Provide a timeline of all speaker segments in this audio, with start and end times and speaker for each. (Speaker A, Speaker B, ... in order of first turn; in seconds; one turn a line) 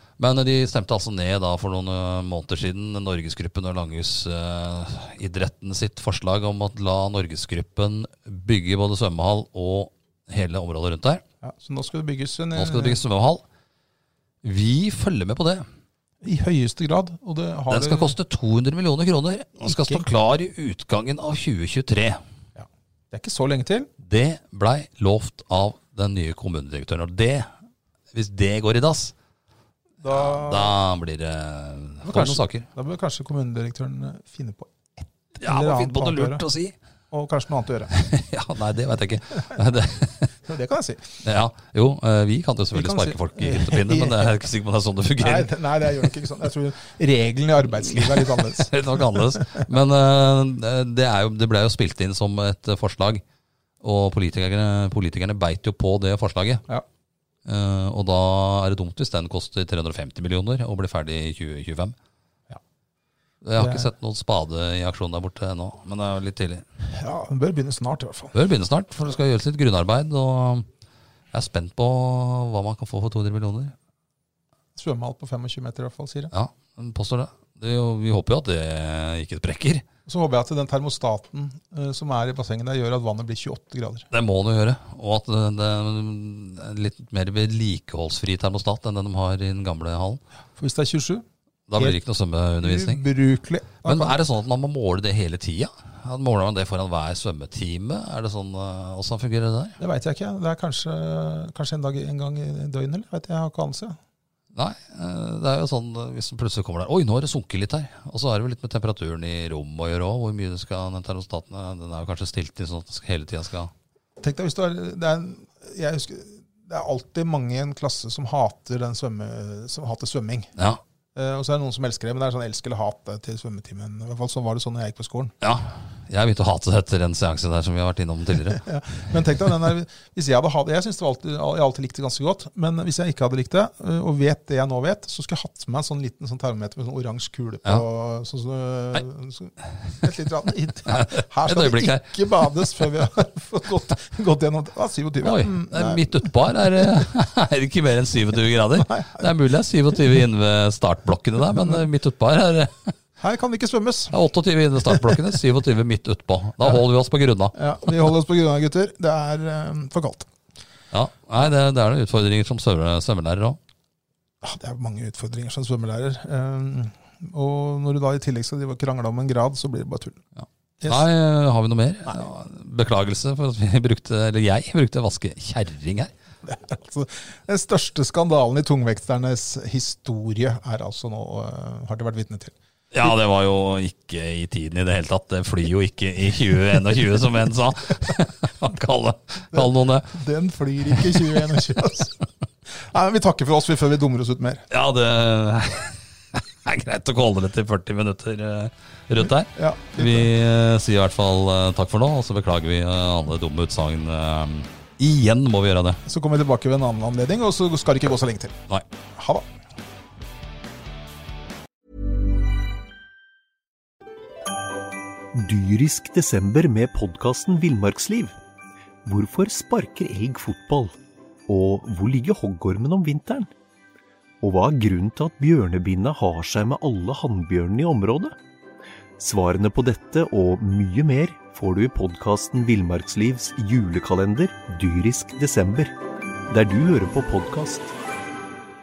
Speaker A: 0.2-11.2
Speaker B: 11.4-13.0
Speaker A: 12.6-13.4
Speaker A: 14.4-15.7
Speaker B: 16.2-18.2
Speaker A: 17.7-22.2
Speaker B: 19.6-20.1
Speaker B: 22.6-23.9
Speaker A: 24.0-27.5
Speaker A: 28.1-29.1
Speaker B: 30.0-30.8
Speaker A: 30.1-32.7
Speaker B: 32.0-36.4
Speaker A: 35.4-36.8
Speaker B: 37.1-37.9
Speaker A: 37.9-40.3
Speaker B: 40.5-41.2
Speaker A: 41.2-45.5
Speaker B: 42.7-44.4
Speaker B: 45.2-49.6
Speaker A: 47.8-53.2
Speaker A: 53.8-56.6
Speaker A: 57.5-62.0
Speaker A: 63.4-66.7
Speaker B: 63.6-63.9
Speaker B: 66.9-68.3
Speaker A: 68.3-70.7
Speaker A: 71.3-73.8
Speaker B: 74.8-76.3
Speaker A: 76.3-79.8
Speaker B: 80.1-84.1
Speaker A: 84.1-90.2
Speaker B: 90.6-91.2
Speaker A: 91.7-93.0
Speaker B: 92.6-94.2
Speaker A: 93.8-99.8
Speaker B: 99.8-104.0
Speaker A: 104.5-113.7
Speaker B: 114.2-120.5
Speaker A: 120.6-120.8
Speaker B: 121.2-125.3
Speaker A: 125.4-128.6
Speaker B: 128.5-146.3
Speaker A: 140.9-142.2
Speaker A: 145.2-152.9
Speaker B: 148.8-149.3
Speaker B: 151.5-151.8
Speaker B: 153.2-154.2
Speaker A: 154.1-157.6
Speaker B: 154.9-155.2
Speaker B: 157.5-160.3
Speaker A: 160.9-163.6
Speaker B: 164.4-170.2
Speaker A: 170.4-176.1
Speaker B: 170.8-171.1
Speaker B: 176.4-183.2
Speaker A: 182.9-190.1
Speaker B: 189.5-194.6
Speaker A: 190.9-191.6
Speaker A: 194.7-206.0
Speaker B: 199.2-200.3
Speaker B: 206.1-208.6
Speaker B: 209.2-209.5
Speaker C: 215.3-218.3
Speaker C: 219.1-220.9
Speaker C: 221.5-223.5
Speaker C: 224.4-228.4
Speaker C: 229.2-235.9
Speaker C: 236.5-237.9